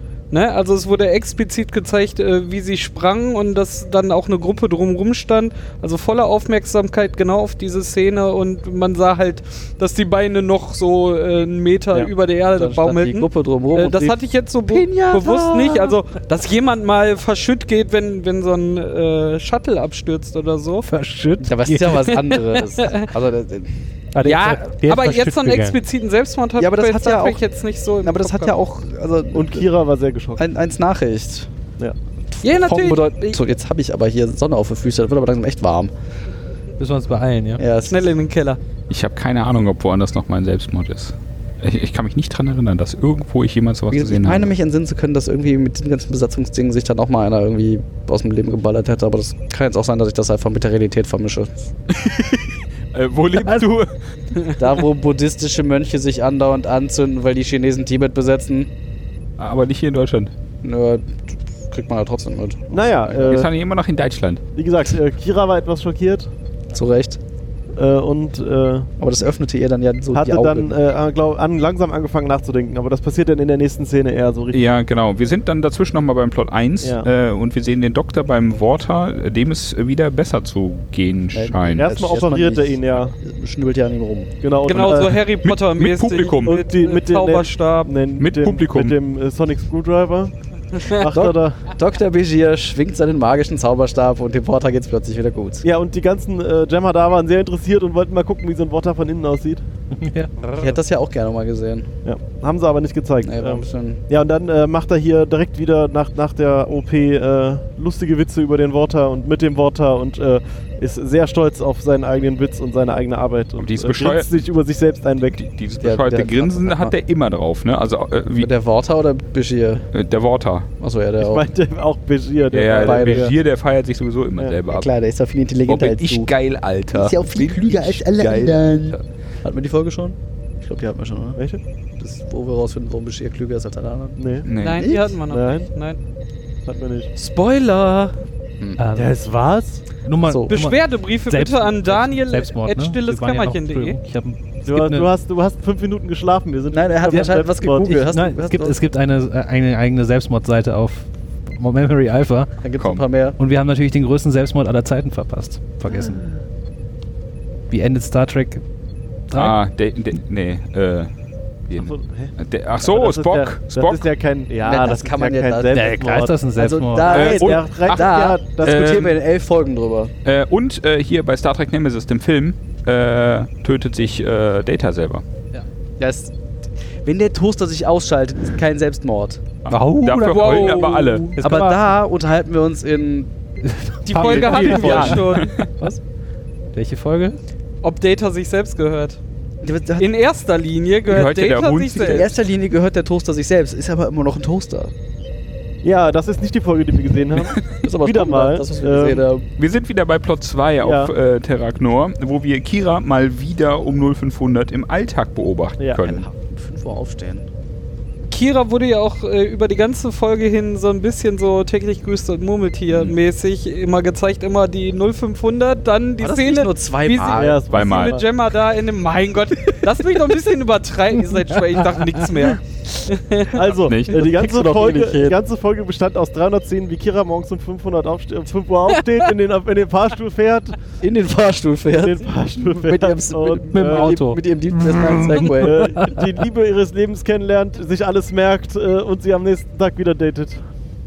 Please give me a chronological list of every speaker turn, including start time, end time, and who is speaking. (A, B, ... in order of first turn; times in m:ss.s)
0:00.3-0:20.9 A
0:12.6-0:14.2 B
0:14.7-0:16.0 B
0:20.9-0:22.1 C
0:21.4-0:23.9 B
0:22.3-0:23.1 A
0:24.1-0:25.8 C
0:24.2-0:28.6 A
0:26.6-0:27.4 B
0:28.0-0:29.7 B
0:29.3-0:30.4 D
0:30.4-0:31.5 B
0:32.3-0:35.9 B
0:32.4-0:33.4 A
0:36.8-0:37.6 C
0:37.6-0:38.1 B
0:37.9-0:38.6 A
0:38.9-0:44.5 E
0:43.9-0:51.7 B
0:51.9-0:54.5 E
0:54.6-0:58.7 B
0:59.4-1:00.3 E
1:00.6-1:03.5 B
1:02.7-1:03.5 D
1:03.2-1:04.4 E
1:04.6-1:06.3 D
1:06.7-1:07.2 B
1:07.8-1:08.9 D
1:09.0-1:10.8 B
1:10.1-1:14.6 D
1:14.5-1:22.2 E
1:16.8-1:17.1 D
1:21.3-1:24.3 B
1:21.8-1:23.2 D
1:24.4-1:25.2 D
1:24.6-1:27.9 A
1:25.4-1:26.6 E
1:26.4-1:30.3 D
1:28.2-1:29.0 E
1:30.8-1:31.0 A
1:30.8-1:31.7 D
1:31.1-1:35.6 B
1:35.6-1:39.6 D
1:39.9-1:40.3 C
1:40.6-1:41.9 B
1:42.0-1:55.4 D
1:43.2-1:44.0 B
1:53.6-1:54.3 E
1:55.3-1:58.5 E
1:55.8-1:57.0 B
1:58.4-1:59.9 B
1:59.9-2:00.7 E
2:00.8-2:01.5 B
2:01.2-2:03.4 D
2:02.5-2:04.9 E
2:02.7-2:03.3 B
2:04.7-2:06.3 B
2:05.7-2:09.0 E
2:06.9-2:11.4 B
2:12.0-2:15.1 B
2:14.2-2:14.5 D
2:14.5-2:14.9 E
2:14.6-2:16.0 A
2:15.3-2:15.7 D
2:16.6-2:17.1 D
2:17.2-2:18.2 A
2:18.8-2:19.3 C
2:19.0-2:19.8 D
2:20.0-2:25.1 C
2:20.2-2:20.6 B
2:20.5-2:24.0 A
2:24.6-2:28.1 D
2:26.7-2:28.8 B
2:28.1-2:32.5 C
2:32.6-2:33.4 B
2:33.4-2:36.3 C
2:37.7-2:38.6 C
2:39.3-2:39.6 C
2:39.3-2:41.1 E
2:41.7-2:44.1 E
2:41.7-2:46.4 D
2:44.6-2:45.9 B
2:45.7-2:47.2 C
2:46.6-2:50.1 B
2:47.0-2:49.1 D
2:47.1-2:49.2 E
2:50.2-2:55.2 E
2:56.0-2:56.3 B
2:57.0-2:59.4 B
2:59.6-3:01.3 E
2:59.7-3:01.8 C
3:00.2-3:01.3 A
3:01.4-3:03.3 B
3:03.6-3:06.0 C
3:04.1-3:05.6 A
3:04.2-3:05.7 E
3:04.2-3:05.2 B
3:06.7-3:07.4 C
3:07.8-3:09.2 A
3:09.6-3:10.1 B
3:10.0-3:12.3 A
3:11.1-3:12.3 E
3:12.0-3:14.9 B
3:15.8-3:19.2 D
3:17.7-3:19.5 B
3:19.6-3:26.3 E
3:20.8-3:21.1 D
3:26.0-3:27.5 B
3:28.3-3:43.6 A
3:32.9-3:33.2 E
3:36.2-3:37.6 B
3:37.2-3:38.3 E
3:37.3-3:38.3 D
3:43.5-3:50.8 D
3:43.7-3:45.0 E
3:44.3-3:45.4 B
3:51.0-3:56.1 B
3:52.0-3:54.2 D
3:53.7-3:55.8 C
3:55.5-4:00.7 D